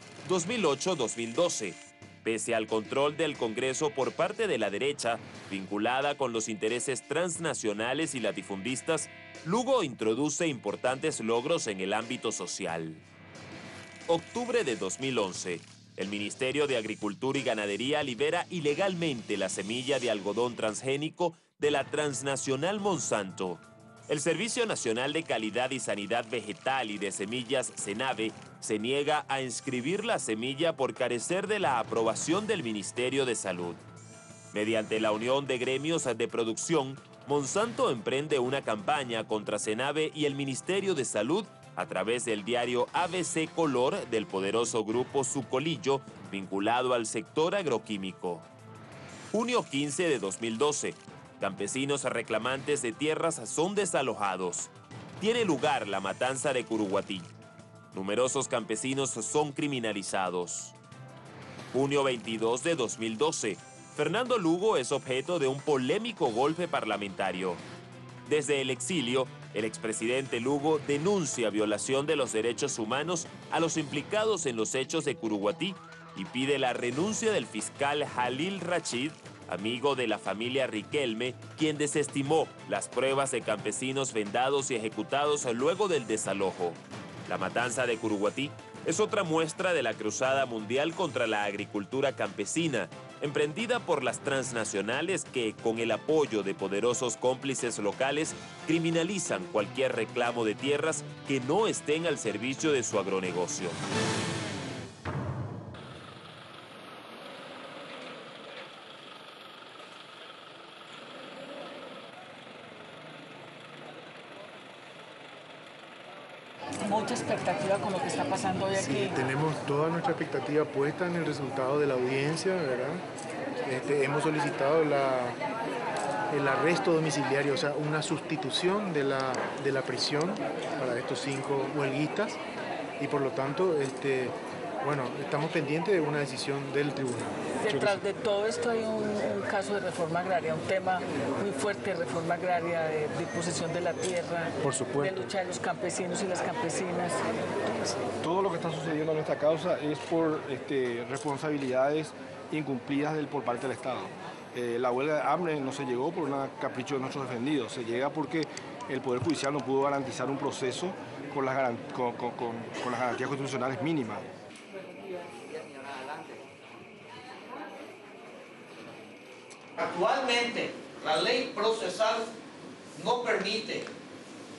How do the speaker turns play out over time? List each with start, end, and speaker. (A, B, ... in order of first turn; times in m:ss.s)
0:00.2-0:13.0 A
0:14.1-0:33.8 A
0:34.5-0:48.5 A
0:49.3-0:57.3 A
0:57.9-1:00.8 A
1:01.7-1:07.6 A
1:08.3-1:43.8 A
1:56.8-1:59.2 B
1:58.8-2:03.0 C
2:03.6-2:05.4 C
2:06.3-2:12.4 C
2:13.0-2:18.0 C
2:17.6-2:27.2 B
2:24.6-2:25.3 C
2:28.2-2:44.3 D
2:49.8-2:52.3 E
2:53.0-2:53.9 E